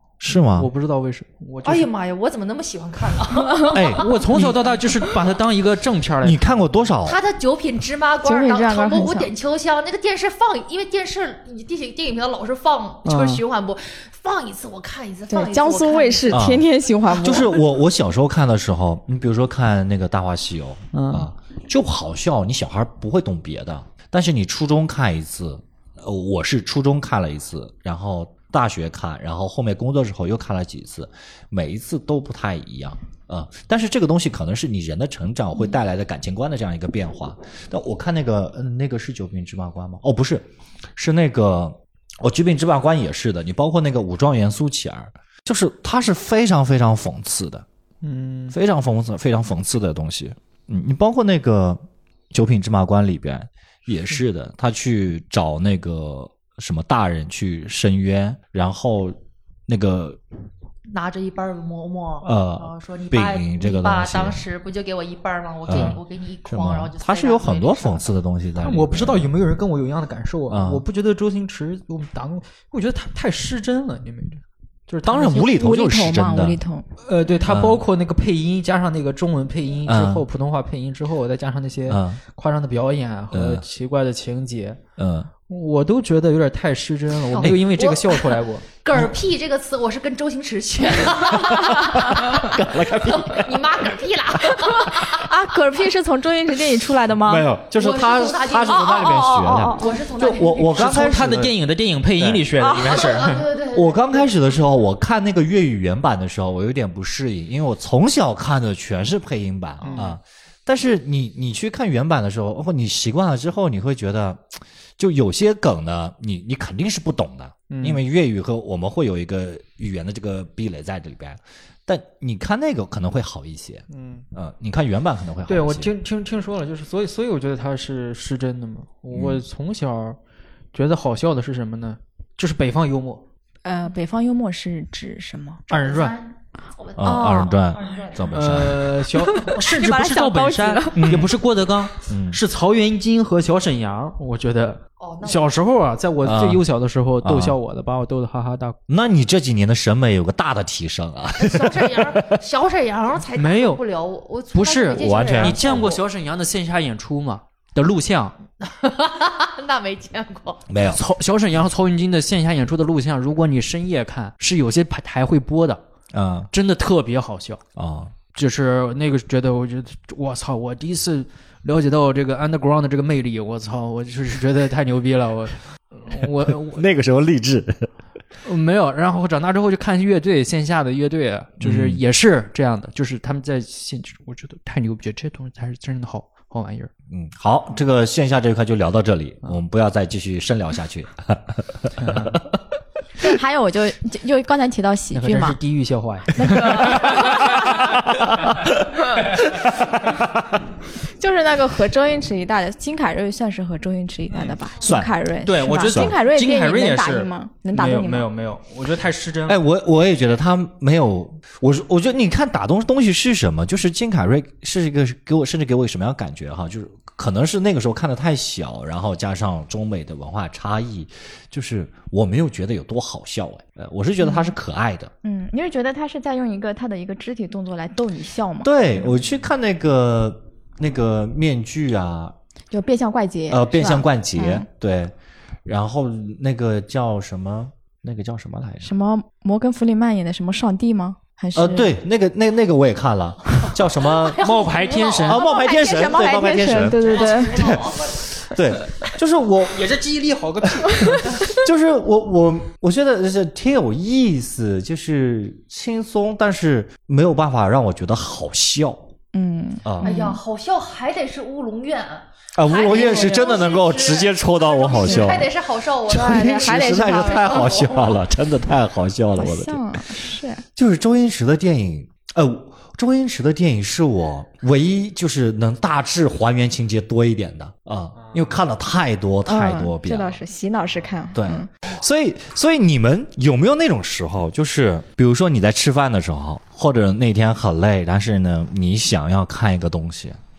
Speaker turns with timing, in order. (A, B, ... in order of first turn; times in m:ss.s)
0:00.2-0:00.7 A
0:00.4-0:01.9 B
0:01.6-0:04.2 C
0:03.7-0:04.8 A
0:03.9-0:06.9 B
0:06.2-0:07.2 A
0:07.0-0:16.6 C
0:08.2-0:09.3 D
0:13.0-0:13.4 B
0:15.3-0:17.6 D
0:16.3-0:47.6 A
0:20.9-0:21.3 B
0:48.0-0:48.5 B
0:48.5-0:51.8 A
0:52.3-1:00.2 A
1:00.9-1:08.1 C
1:02.2-1:04.4 A
1:05.7-1:09.3 A
1:05.7-1:06.0 B
1:08.6-1:15.4 B
1:10.5-1:10.8 A
1:15.0-1:16.6 A
1:15.1-1:16.8 D
1:17.0-1:24.8 B
1:17.4-1:17.8 A
1:19.8-1:20.3 A
1:21.9-1:22.2 A
1:23.3-1:23.6 A
1:25.0-1:25.3 A
1:25.5-1:28.6 B
1:27.3-1:35.3 C
1:31.5-1:33.7 A
1:34.9-1:37.5 D
1:37.2-1:41.5 A
1:37.7-1:40.9 C
1:38.7-1:40.0 D
1:40.7-1:43.5 B
1:42.2-1:42.5 A
1:42.6-1:43.0 D
1:42.8-1:44.3 C
1:43.7-2:05.9 A
1:49.8-1:50.2 B
1:57.7-1:58.0 B
2:03.9-2:04.2 B
2:05.5-2:10.2 B
2:09.1-2:09.4 A
2:10.7-2:13.2 B
2:13.6-2:15.6 D
2:15.7-2:16.2 B
2:15.7-2:18.2 C
2:17.0-2:19.0 A
2:17.0-2:17.5 D
2:18.3-2:28.8 B
2:19.1-2:21.1 D
2:21.0-2:21.4 A
2:22.0-2:22.4 A
2:25.0-2:25.5 C
2:26.2-2:26.6 A
2:27.2-2:27.6 A
2:28.9-2:32.4 A
2:31.4-2:36.0 C
2:33.3-2:33.8 B
2:34.5-2:38.3 B
2:34.9-2:36.0 A
2:38.6-2:40.6 C
2:40.7-2:41.0 A
2:40.8-2:45.8 B
2:46.1-2:46.5 A
2:46.5-2:47.6 B
2:47.8-2:48.1 A
2:48.3-2:56.8 B
2:56.5-2:57.9 A
2:58.4-3:06.9 B
3:01.6-3:02.0 A
3:07.1-3:12.3 A
3:12.0-3:12.4 B
3:13.2-3:15.6 D
3:15.1-3:18.0 B
3:16.3-3:17.8 D
3:17.6-3:18.7 A
3:19.6-3:20.5 A
3:21.1-3:28.3 D
3:24.8-3:25.1 A
3:25.4-3:29.6 B
3:25.8-3:26.2 A
3:29.5-3:45.1 A
3:45.2-3:48.8 D
3:48.6-3:52.3 A
3:52.7-3:54.6 D
3:53.5-3:55.1 A
3:55.6-3:58.9 A
3:58.8-4:01.9 D
4:01.5-4:04.4 A
4:04.2-4:06.0 C
4:04.4-4:05.4 B
4:05.2-4:09.8 A
4:05.4-4:07.8 D
4:07.0-4:08.2 C
4:09.7-4:11.4 B
4:10.8-4:19.1 A
4:19.3-4:20.4 D
4:19.8-4:20.1 A
4:20.0-4:28.2 C
4:22.6-4:25.5 A
4:22.9-4:23.6 D
4:25.0-4:25.4 D
4:26.0-4:30.0 A
4:26.1-4:27.7 D
4:29.4-4:30.6 D
4:30.8-4:40.4 A
4:39.5-4:41.7 D
4:41.3-4:50.4 A